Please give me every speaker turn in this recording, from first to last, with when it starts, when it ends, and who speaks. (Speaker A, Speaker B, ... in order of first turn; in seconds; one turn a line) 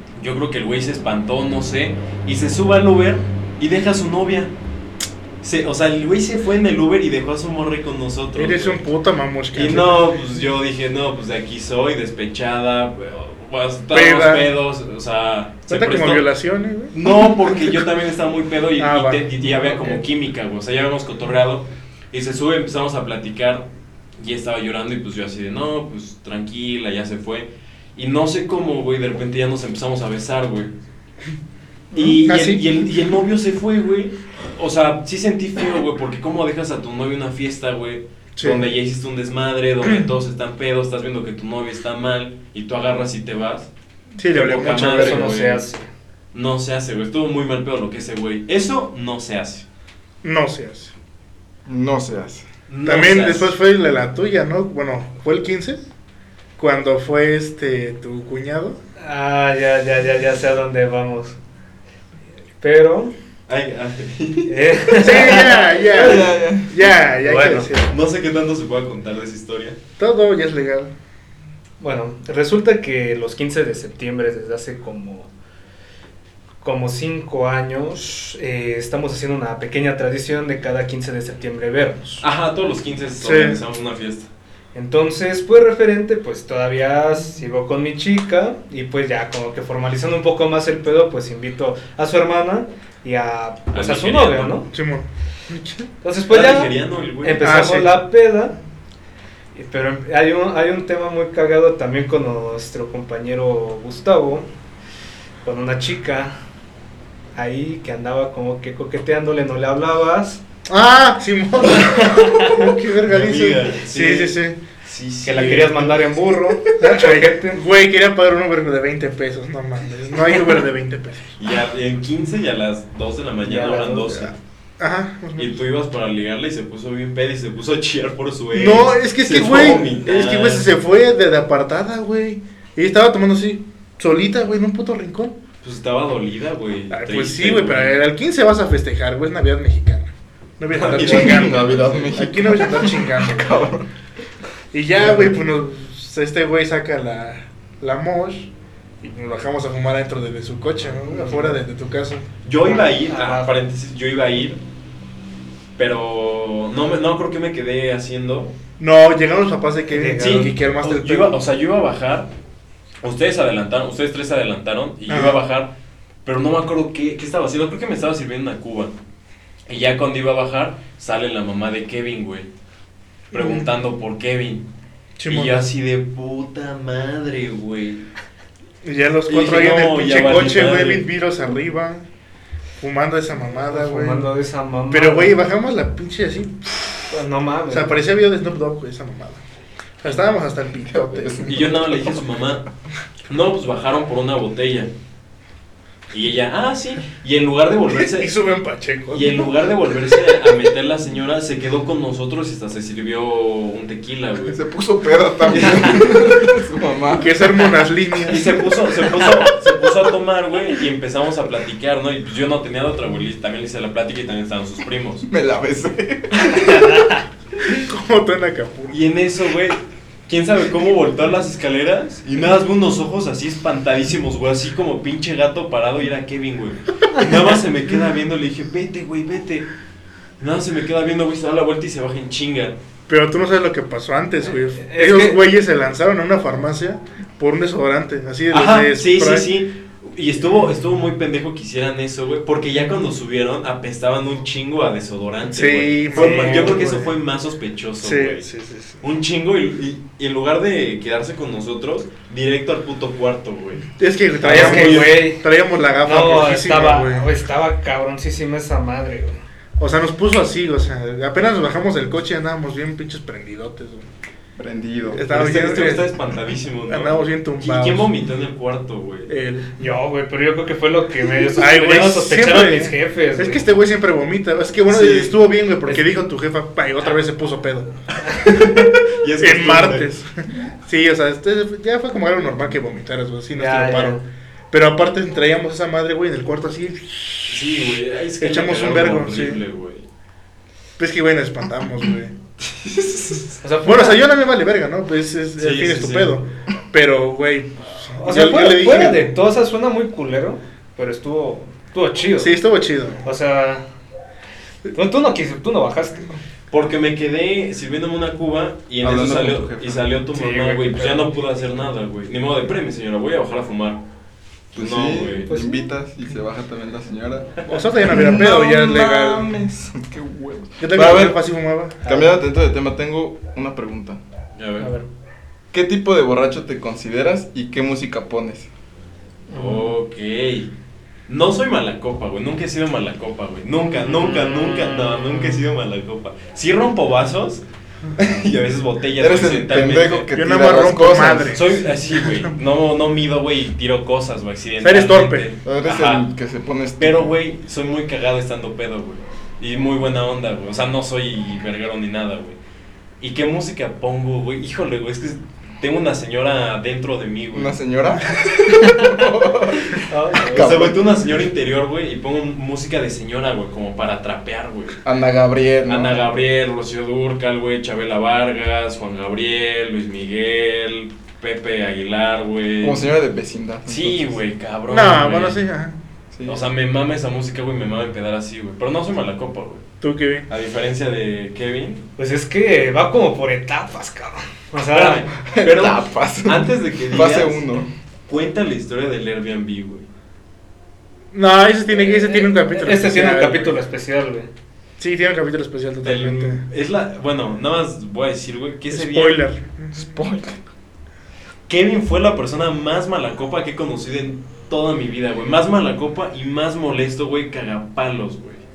Speaker A: 0.2-4.5
Speaker A: 5.4-8.8
Speaker B: 8.3-10.0
Speaker A: 9.5-16.2
Speaker B: 13.9-14.5
Speaker B: 15.7-17.7
Speaker A: 16.9-23.6
Speaker B: 18.8-20.0
Speaker A: 24.2-30.7
Speaker A: 31.9-43.7
Speaker B: 32.2-32.6
Speaker B: 38.4-38.6
Speaker B: 44.2-45.4
Speaker A: 44.3-45.6
Speaker C: 44.5-45.9
Speaker A: 46.3-49.6
Speaker B: 50.2-50.9
Speaker D: 51.6-52.4
Speaker A: 52.7-53.5
Speaker B: 52.8-55.8
Speaker B: 56.6-58.8
Speaker C: 59.0-61.4
Speaker C: 62.6-63.1
Speaker A: 63.5-65.0
Speaker C: 64.5-66.2
Speaker B: 65.0-67.9
Speaker D: 65.9-66.7
Speaker C: 67.3-67.7
Speaker A: 67.3-69.8
Speaker B: 70.0-70.9
Speaker C: 71.8-75.3
Speaker C: 76.6-82.2
Speaker A: 82.2-84.3
Speaker B: 83.2-83.6
Speaker C: 84.7-94.7
Speaker A: 93.7-94.6
Speaker B: 94.7-95.9
Speaker C: 96.0-98.5
Speaker A: 96.3-97.5
Speaker B: 97.4-98.0
Speaker C: 99.5-104.5
Speaker C: 105.4-106.3
Speaker C: 107.3-110.4
Speaker B: 110.7-114.6
Speaker C: 111.6-112.7
Speaker A: 113.1-116.0
Speaker C: 115.2-117.6
Speaker B: 116.8-121.3
Speaker A: 121.4-124.3
Speaker C: 123.4-124.2
Speaker B: 124.1-125.5
Speaker A: 125.4-130.7
Speaker B: 128.5-135.4
Speaker A: 135.6-138.0
Speaker B: 136.9-143.6
Speaker A: 140.7-142.2
Speaker D: 140.9-143.9
Speaker B: 144.7-148.5
Speaker D: 145.0-145.3
Speaker B: 149.0-152.2
Speaker C: 151.1-151.6
Speaker A: 152.4-154.6
Speaker C: 152.6-153.5
Speaker A: 155.8-158.5
Speaker B: 158.8-161.3
Speaker C: 159.9-160.5
Speaker A: 160.2-162.3
Speaker A: 163.0-165.7
Speaker B: 165.1-165.4
Speaker A: 166.2-168.9
Speaker A: 169.7-172.5
Speaker B: 173.3-173.7
Speaker A: 173.3-174.7
Speaker B: 175.2-175.6
Speaker A: 175.3-178.0
Speaker B: 178.8-182.1
Speaker A: 179.3-181.0
Speaker B: 182.8-184.3
Speaker C: 183.7-185.4
Speaker B: 184.9-189.4
Speaker C: 187.1-188.0
Speaker B: 190.0-191.6
Speaker D: 190.8-192.2
Speaker A: 191.5-192.7
Speaker A: 193.3-194.9
Speaker A: 196.1-198.3
Speaker B: 198.0-199.5
Speaker A: 199.1-204.6
Speaker D: 204.5-207.7
Speaker A: 205.5-206.1
Speaker B: 207.1-208.5
Speaker A: 208.3-215.2
Speaker D: 215.3-216.7
Speaker C: 216.5-217.2
Speaker B: 217.7-219.0
Speaker A: 218.9-229.7
Speaker A: 230.4-232.8
Speaker B: 233.1-239.5
Speaker C: 234.8-235.4
Speaker A: 238.5-248.4
Speaker B: 245.5-247.2
Speaker C: 246.1-246.9
Speaker B: 248.0-249.0
Speaker A: 249.0-253.9
Speaker B: 253.9-257.3
Speaker A: 254.4-255.1
Speaker C: 254.4-255.4
Speaker C: 256.0-259.4
Speaker B: 259.8-264.1
Speaker D: 264.6-265.2
Speaker B: 265.1-266.1
Speaker A: 265.1-269.3
Speaker B: 266.9-268.1
Speaker B: 269.3-269.9
Speaker C: 269.8-273.6
Speaker B: 271.6-278.8
Speaker A: 274.9-275.3
Speaker C: 275.8-276.2
Speaker A: 278.4-280.1
Speaker B: 279.4-287.9
Speaker C: 283.5-284.2
Speaker A: 287.5-290.1
Speaker B: 288.4-289.6
Speaker B: 291.0-292.3
Speaker A: 292.7-293.5
Speaker C: 293.6-294.2
Speaker B: 293.8-299.3
Speaker A: 295.6-296.4
Speaker C: 298.2-302.6
Speaker B: 302.4-303.2
Speaker C: 303.2-303.8
Speaker C: 304.9-306.3
Speaker A: 306.7-314.0
Speaker D: 309.0-310.1
Speaker C: 310.3-311.3
Speaker A: 314.7-315.5
Speaker D: 314.7-321.4
Speaker C: 315.5-315.9
Speaker B: 317.7-319.6
Speaker B: 320.8-322.0
Speaker D: 322.0-324.2
Speaker C: 322.0-322.3
Speaker A: 324.5-324.9
Speaker C: 324.8-325.1
Speaker D: 325.7-328.7
Speaker C: 329.5-329.9
Speaker A: 329.5-330.7
Speaker A: 331.3-337.6
Speaker C: 334.0-335.6
Speaker A: 338.2-340.3
Speaker D: 339.2-341.6
Speaker B: 340.3-342.5
Speaker A: 341.5-346.2
Speaker B: 344.8-345.4
Speaker D: 345.6-347.4
Speaker A: 347.0-352.6
Speaker A: 353.2-357.8
Speaker D: 357.5-361.0
Speaker C: 359.9-360.9
Speaker A: 360.5-365.0
Speaker D: 365.0-366.2
Speaker A: 365.9-373.0
Speaker D: 372.8-374.4
Speaker A: 373.9-375.6
Speaker B: 374.9-376.0
Speaker D: 376.3-376.6
Speaker A: 376.4-379.8
Speaker B: 380.0-380.5
Speaker A: 380.5-382.1
Speaker C: 382.2-385.3
Speaker A: 384.9-387.6
Speaker D: 385.4-387.9
Speaker A: 388.3-390.1
Speaker B: 391.3-393.8
Speaker C: 391.9-394.5
Speaker B: 395.0-396.6
Speaker A: 396.0-399.4
Speaker B: 398.9-400.0
Speaker D: 399.9-400.6
Speaker A: 401.7-408.6